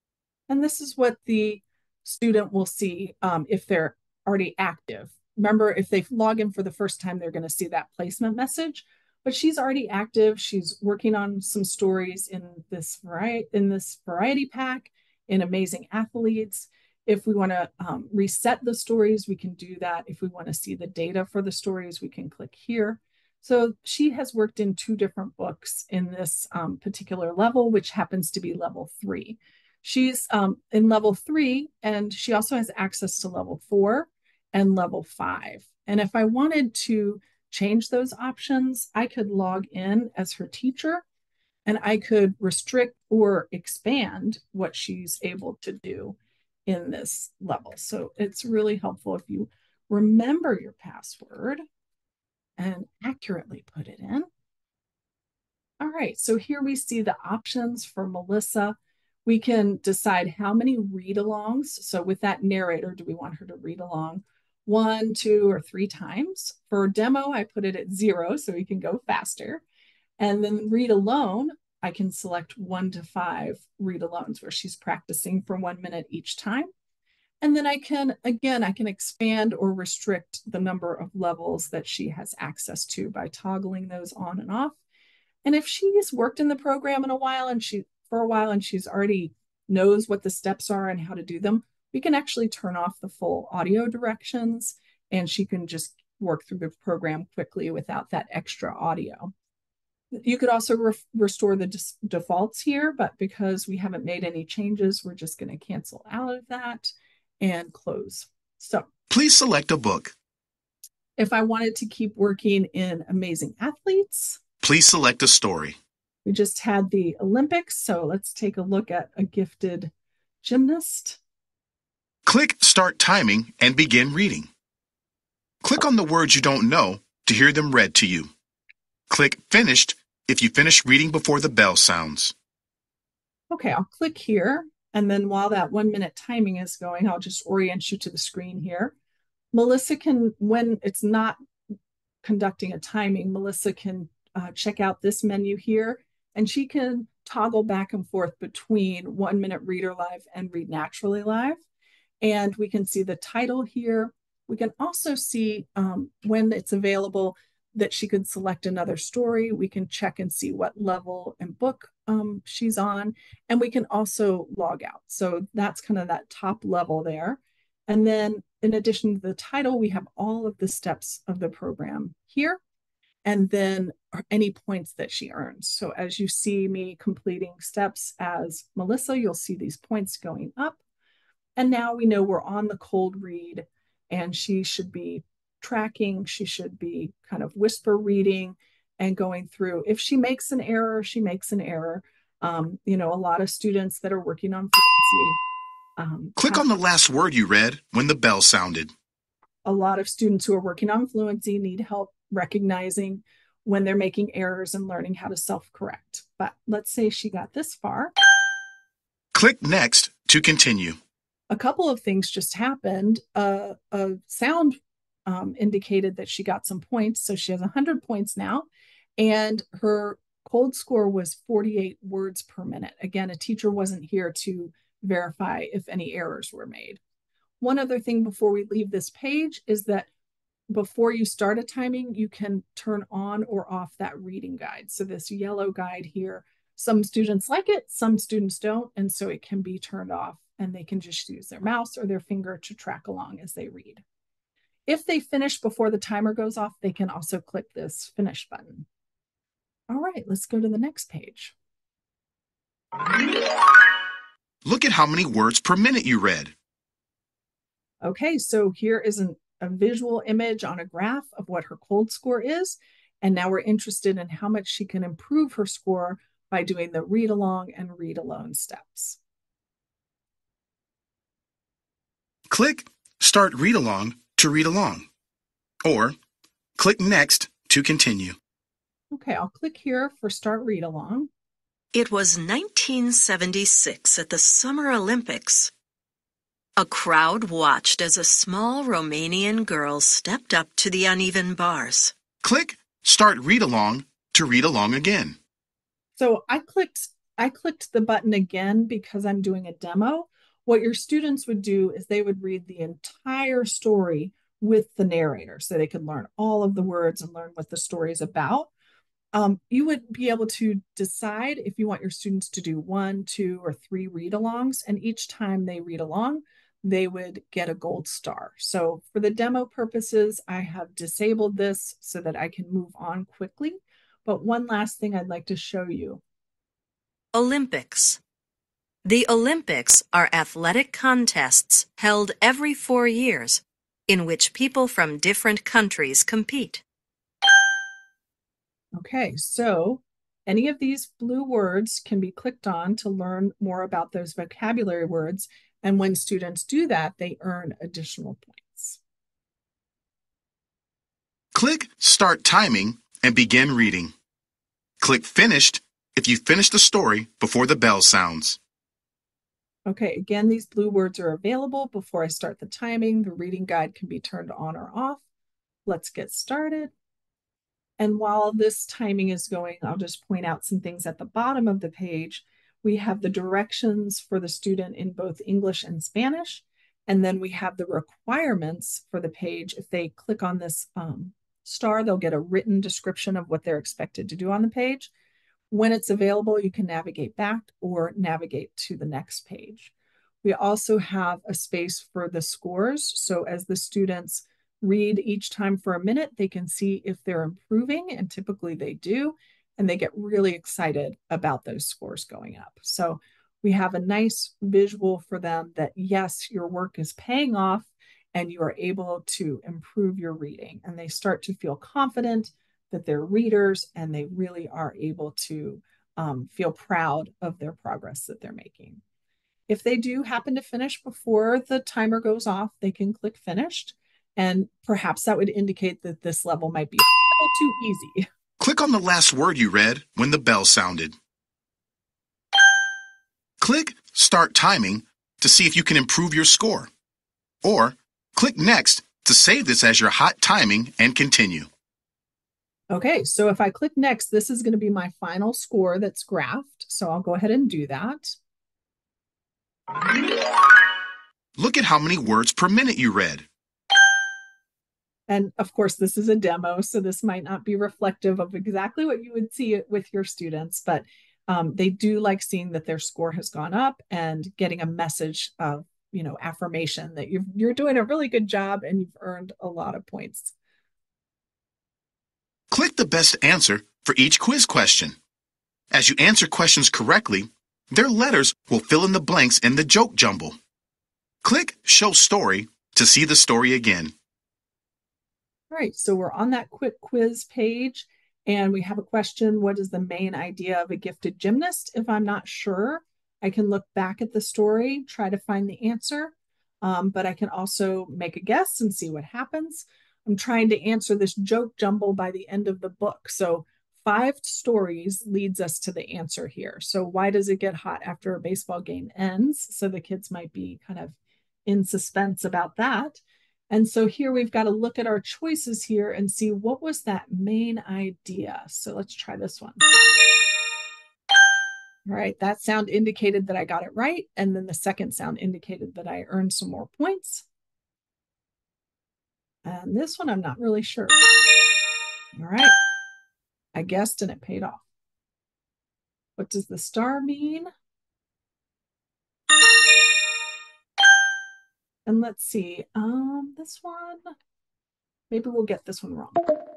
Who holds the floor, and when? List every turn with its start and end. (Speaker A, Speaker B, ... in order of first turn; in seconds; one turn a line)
Speaker A: 0.5-41.0
Speaker A: 41.7-51.6
Speaker A: 52.6-54.3
Speaker A: 55.8-69.6
Speaker A: 70.2-76.7
Speaker A: 77.4-84.8
Speaker A: 85.4-99.3
Speaker A: 100.1-108.9
Speaker B: 109.1-110.1
Speaker A: 111.2-114.4
Speaker B: 114.6-115.8
Speaker A: 116.2-121.2
Speaker B: 122.2-124.5
Speaker B: 125.6-128.3
Speaker B: 129.1-132.3
Speaker A: 133.5-138.9
Speaker A: 139.5-141.4
Speaker A: 142.2-151.6
Speaker A: 152.2-172.6
Speaker A: 173.2-180.8
Speaker A: 181.6-195.4
Speaker A: 196.0-196.7
Speaker B: 196.4-198.9
Speaker A: 199.7-208.1
Speaker B: 209.3-211.0
Speaker A: 211.5-218.7
Speaker A: 219.2-227.0
Speaker A: 227.6-230.1
Speaker A: 230.7-244.0
Speaker A: 244.9-248.9
Speaker A: 249.9-251.5
Speaker B: 254.6-256.5
Speaker A: 258.0-269.2
Speaker B: 272.5-275.1
Speaker B: 275.8-276.1
Speaker B: 276.8-278.4
Speaker A: 279.1-281.3
Speaker C: 281.9-285.7
Speaker C: 286.8-292.1
Speaker B: 292.4-295.4
Speaker A: 296.2-308.7
Speaker A: 309.3-326.2
Speaker C: 327.3-328.2
Speaker C: 329.1-336.8
Speaker A: 339.0-349.0
Speaker B: 351.5-354.1
Speaker B: 355.0-358.6
Speaker A: 359.9-365.2
Speaker A: 365.9-366.9
Speaker A: 368.0-385.1
Speaker A: 385.7-389.9
Speaker A: 390.4-419.0
Speaker A: 419.7-428.3
Speaker B: 428.6-431.1
Speaker B: 433.6-436.9
Speaker B: 437.6-441.7
Speaker A: 442.9-448.4
Speaker B: 451.6-453.5
Speaker A: 455.3-470.5
Speaker B: 472.7-475.2
Speaker B: 475.9-480.6
Speaker B: 481.4-484.1
Speaker A: 485.7-519.8
Speaker A: 522.1-527.4
Speaker A: 529.6-531.2
Speaker A: 532.4-532.8
Speaker A: 533.8-534.8
Speaker A: 536.4-537.7
Speaker A: 542.1-544.3
Speaker A: 545.3-546.5